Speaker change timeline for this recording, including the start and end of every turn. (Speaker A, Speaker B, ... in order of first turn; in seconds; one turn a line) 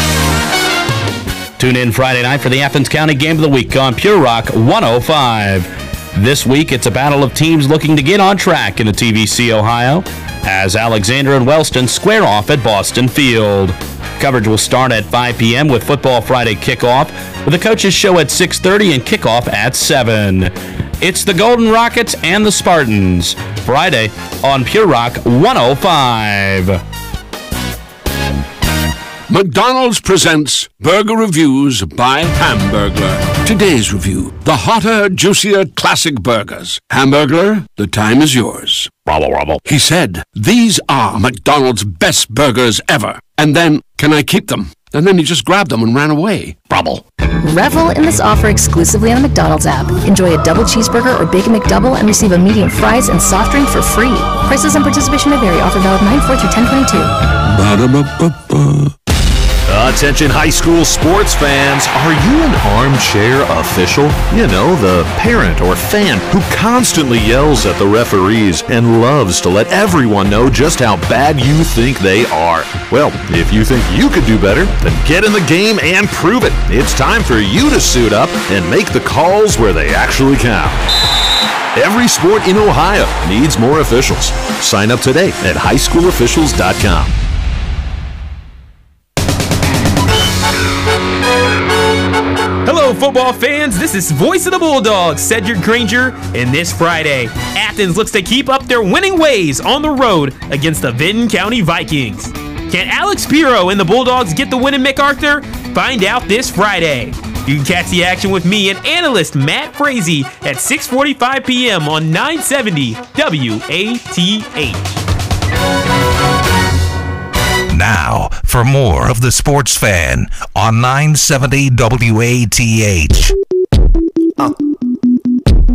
Speaker A: 1.6-26.8
Speaker B: 29.3-39.1
Speaker C: 39.1-39.6
Speaker B: 39.6-47.0
Speaker D: 47.4-57.1
Speaker B: 57.4-58.9
Speaker C: 59.7-80.8
Speaker C: 81.8-87.1
Speaker E: 92.7-115.0
Speaker F: 117.7-123.3